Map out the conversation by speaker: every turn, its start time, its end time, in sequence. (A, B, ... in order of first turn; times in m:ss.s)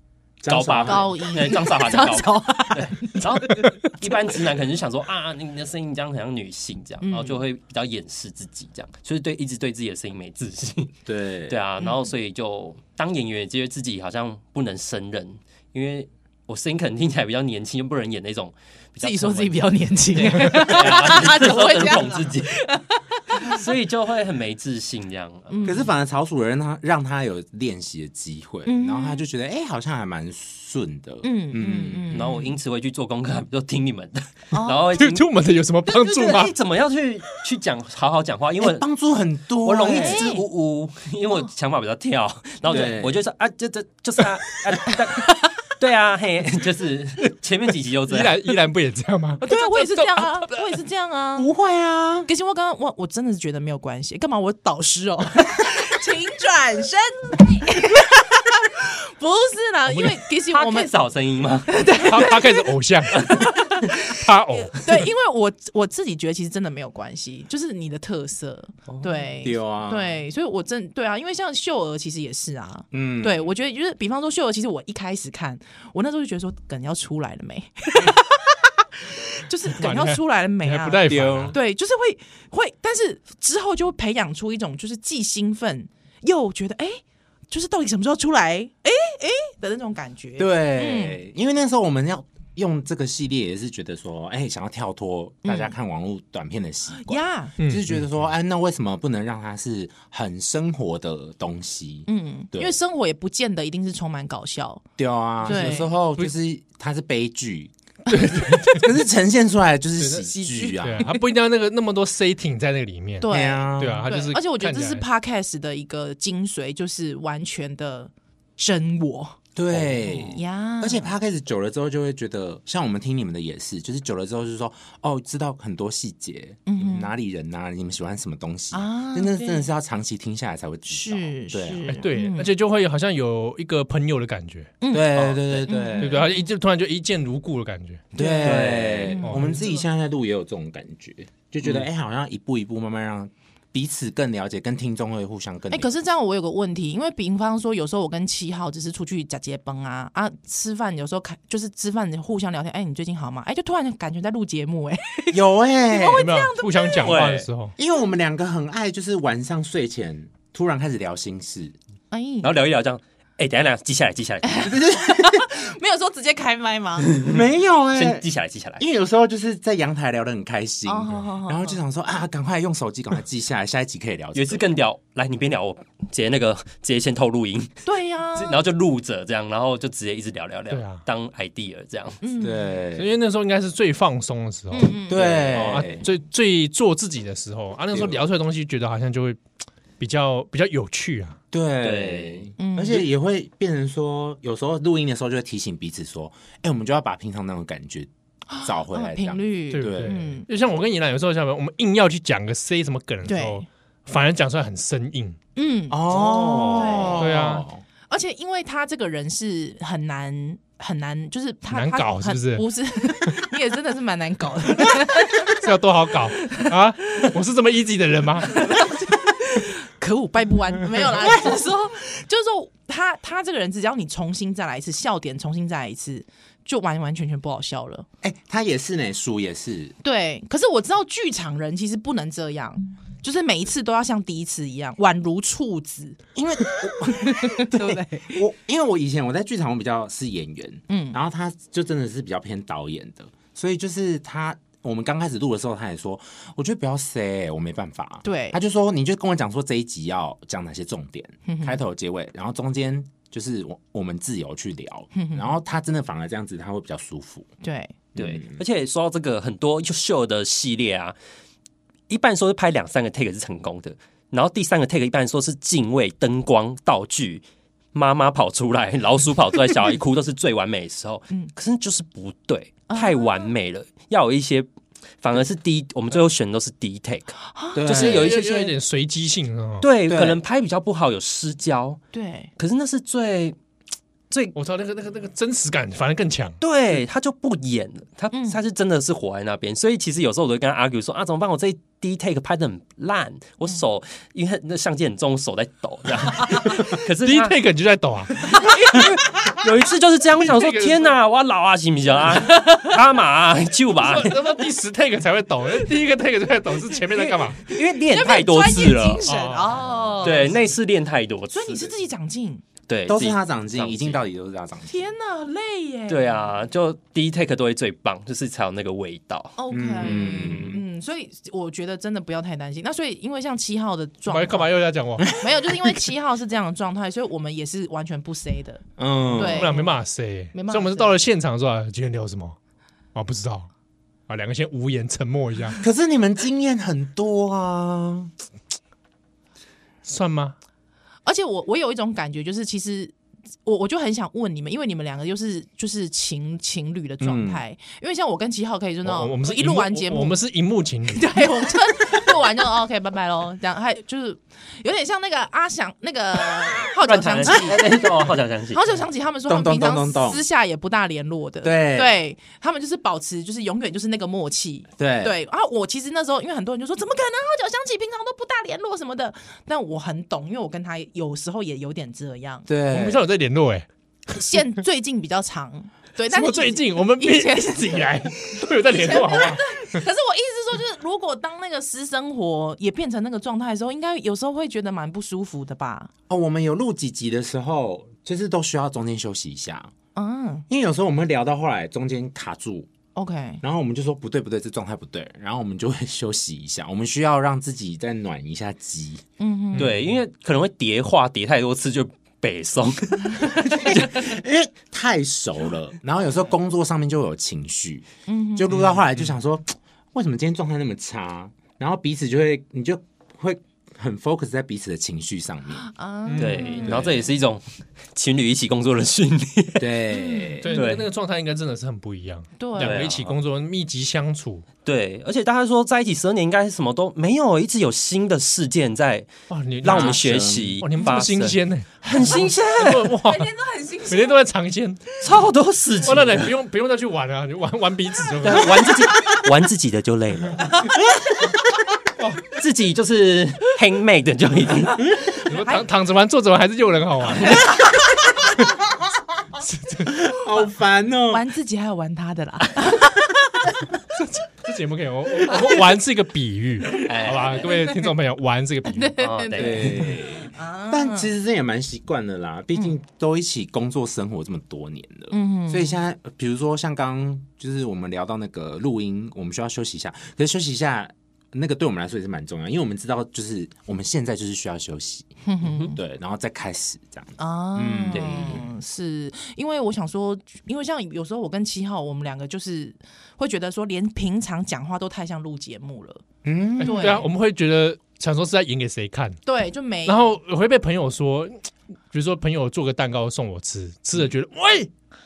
0:00.4-0:01.1 A
0:00.5-0:22.6 B
0:00.9-0:03.8 C
0:07.0-0:07.4 C
0:11.1-0:11.6 A
0:11.8-0:12.1 C
0:19.0-0:23.6 C
0:23.4-0:25.5 B
0:25.5-0:25.9 C
0:25.6-0:32.4 A
0:28.6-0:29.2 C
0:31.2-0:32.5 C
0:32.1-0:35.3 B
0:34.5-0:34.9 C
0:34.9-0:36.5 D
0:35.9-0:38.9 B
0:38.6-0:40.3 A
0:39.6-0:48.5 B
0:39.9-0:40.4 C
0:42.6-0:43.2 A
0:48.1-0:50.6 D
0:49.4-0:51.5 C
0:51.4-0:52.3 A
0:52.3-1:00.9 C
0:59.9-1:00.2 D
1:00.5-1:01.7 B
1:01.7-1:31.2 C
1:02.0-1:03.3 D
1:03.9-1:05.1 D
1:09.4-1:10.2 A
1:12.9-1:13.4 A
1:19.7-1:21.6 D
1:21.1-1:21.6 A
1:30.4-1:42.8 A
1:35.4-1:35.7 C
1:36.9-1:37.6 C
1:37.6-1:38.0 D
1:42.1-1:44.8 C
1:45.0-1:47.7 A
1:45.4-1:45.9 C
1:45.6-1:46.3 D
1:48.1-1:48.9 D
1:48.3-1:51.1 A
1:50.0-1:55.1 D
1:50.6-1:51.2 C
1:53.2-1:59.4 C
1:53.3-1:54.1 A
1:59.6-2:12.0 A
2:00.2-2:01.1 C
2:06.7-2:07.1 C
2:08.7-2:09.7 C
2:10.9-2:12.5 C
2:11.9-2:14.7 D
2:14.8-2:16.4 C
2:14.9-2:16.3 A
2:15.1-2:15.7 B
2:16.0-2:18.1 D
2:18.1-2:25.9 A
2:18.2-2:19.8 C
2:18.4-2:19.2 B
2:19.2-2:19.6 D
2:25.7-2:37.2 C
2:35.3-2:36.3 A
2:36.1-2:37.7 D
2:37.0-2:37.5 B
2:37.8-2:41.7 A
2:42.1-2:42.5 C
2:42.4-2:44.6 B
2:44.4-2:47.1 C
2:44.6-2:45.5 A
2:47.1-2:47.4 B
2:47.2-2:48.3 A
2:47.9-2:48.8 B
2:48.8-2:54.7 A
2:50.9-2:51.8 C
2:54.4-2:57.8 B
2:57.8-2:58.6 C
2:58.4-3:02.2 B
3:00.7-3:01.0 D
3:02.2-3:02.7 C
3:02.4-3:03.1 A
3:02.9-3:09.4 D
3:04.7-3:05.5 C
3:05.1-3:06.1 A
3:05.5-3:05.8 B
3:07.9-3:08.2 A
3:10.0-3:11.4 D
3:11.5-3:18.1 A
3:11.8-3:12.4 B
3:12.6-3:13.1 C
3:18.5-3:20.5 C
3:18.6-3:20.2 A
3:19.7-3:25.4 D
3:23.2-3:23.6 C
3:25.6-3:27.3 C
3:25.9-3:27.8 A
3:26.1-3:27.2 B
3:27.2-3:27.6 D
3:28.1-3:35.6 C
3:31.7-3:32.7 D
3:35.5-3:38.6 D
3:38.5-3:48.1 C
3:41.2-3:41.6 A
3:48.2-3:50.0 A
3:50.0-3:58.4 C
3:56.4-4:17.5 A
4:00.9-4:01.2 C
4:08.2-4:08.6 C
4:11.4-4:11.8 C
4:15.1-4:15.6 C
4:17.6-4:17.9 C
4:18.1-4:18.6 A
4:18.2-4:21.1 B
4:22.1-4:34.7 B
4:32.9-4:33.5 C
4:35.2-4:38.7 B
4:37.5-4:38.0 C
4:37.7-4:38.4 A
4:37.9-4:39.9 D
4:39.8-4:42.0 B
4:40.1-4:40.4 A
4:42.1-4:42.5 C
4:42.6-4:43.6 B
4:44.6-4:46.6 D
4:46.6-4:57.6 B
4:48.3-4:48.6 C
4:56.7-4:58.5 D
4:58.6-4:59.0 C
4:58.8-5:04.4 B
5:00.4-5:01.1 D
5:02.4-5:02.9 C
5:04.0-5:07.7 D
5:07.2-5:09.2 B
5:07.9-5:10.6 C
5:09.2-5:10.5 D
5:10.2-5:11.9 B
5:11.5-5:12.6 C
5:12.9-5:14.2 B
5:13.1-5:15.1 A
5:14.9-5:16.5 C
5:16.1-5:20.8 B
5:19.6-5:24.7 C
5:19.7-5:20.8 A
5:24.3-5:25.3 D
5:25.2-5:26.0 A
5:25.3-5:30.0 C
5:29.0-5:29.7 A
5:29.4-5:32.6 D
5:30.5-5:31.2 C
5:33.1-5:33.7 D
5:34.3-5:35.8 D
5:35.8-5:38.3 A
5:40.0-5:40.6 D
5:41.2-5:43.1 C
5:43.6-5:50.4 C
5:47.2-5:47.6 A
5:49.0-5:51.6 D
5:51.1-5:58.1 C
5:57.0-5:58.8 B
5:58.7-6:12.6 C
5:59.5-6:00.4 A
6:01.6-6:02.2 A
6:05.0-6:05.4 A
6:12.7-6:13.2 A
6:12.9-6:13.9 D
6:14.3-6:26.1 C
6:16.3-6:20.0 D
6:26.3-6:29.9 A
6:30.1-6:30.6 C
6:30.7-6:32.9 A
6:33.1-6:33.6 C
6:33.6-6:39.2 A
6:39.4-6:39.9 C
6:39.8-6:40.2 D
6:39.8-6:44.1 B
6:43.6-6:55.9 A
6:48.3-6:48.7 C
6:55.8-6:57.3 C
6:56.3-6:56.8 D
6:56.4-7:00.0 B
6:56.8-6:57.2 A
6:59.8-7:00.8 A
7:00.1-7:00.8 C
7:00.6-7:04.6 D
7:00.7-7:01.1 B
7:02.6-7:03.1 C
7:02.8-7:03.3 B
7:04.8-7:13.1 B
7:09.5-7:10.2 D
7:09.8-7:10.7 A
7:10.8-7:13.5 D
7:13.2-7:14.4 C
7:14.1-7:15.2 D
7:15.2-7:16.6 B
7:16.0-7:18.9 D
7:18.4-7:20.6 B
7:22.2-7:22.4 D
7:22.6-7:25.1 B
7:25.5-7:27.6 D
7:25.5-7:25.8 C
7:29.7-7:30.1 D
7:30.0-7:31.4 A
7:31.3-7:33.6 C
7:34.4-7:39.2 D
7:37.0-7:37.7 B
7:38.9-7:41.3 C
7:39.2-7:39.9 B
7:39.6-7:55.3 A
7:45.3-7:46.0 C
7:55.4-7:56.0 C
7:55.9-7:58.6 A
7:57.4-8:06.2 C
7:58.1-7:58.6 B
8:06.4-8:07.2 A
8:06.8-8:09.4 D
8:06.8-8:07.3 C
8:09.4-8:10.4 C
8:10.1-8:14.9 D